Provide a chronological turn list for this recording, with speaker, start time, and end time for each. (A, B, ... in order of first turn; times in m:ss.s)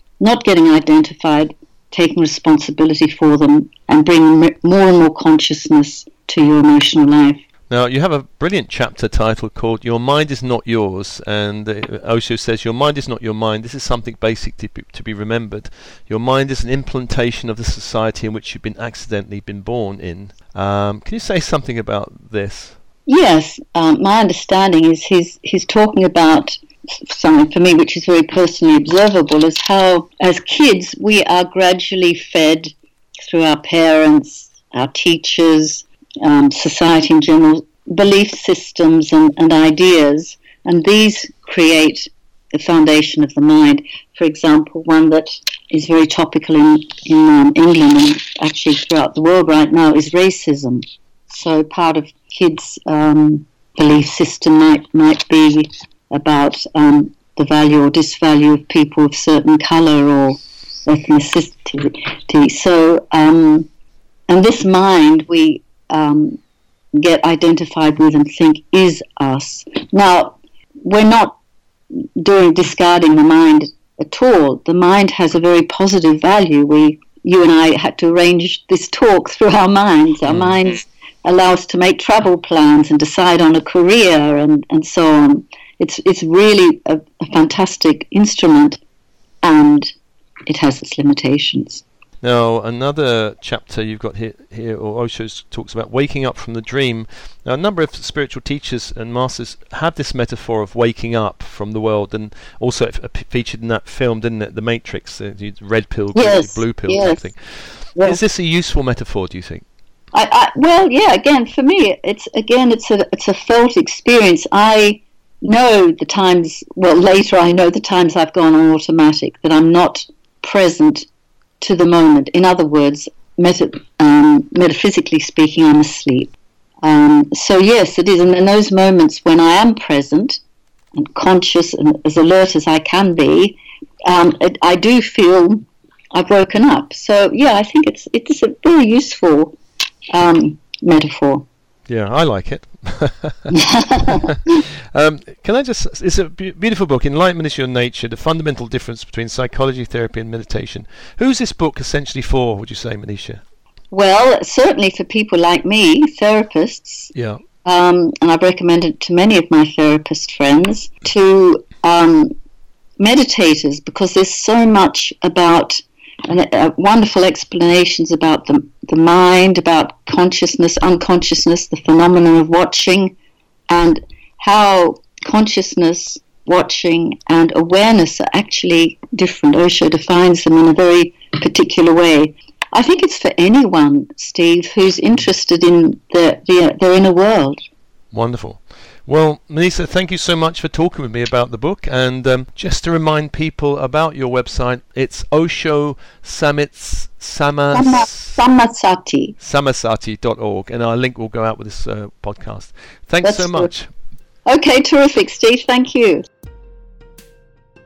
0:00.2-0:07.4 A
0:07.7-0:22.8 B
0:23.1-1:03.7 A
1:04.3-1:06.4 A
1:06.9-1:11.4 A
1:12.2-1:28.8 A
1:20.3-1:20.6 B
1:29.4-1:29.9 A
1:30.5-1:31.8 A
1:32.2-1:49.6 B
1:46.2-1:47.2 A
1:48.0-1:48.2 A
1:50.1-2:01.1 A
2:01.6-2:10.4 A
2:11.0-2:19.6 A
2:20.1-2:21.5 A
2:21.9-2:33.4 B
2:23.5-2:24.6 A
2:33.9-2:37.1 A
2:37.2-2:37.4 B
2:37.6-2:42.3 A
2:43.0-2:53.2 A
2:53.7-3:07.6 A
3:08.1-3:18.4 B
3:17.7-3:19.4 A
3:19.4-3:23.9 B
3:23.2-3:23.7 A
3:24.5-3:26.2 A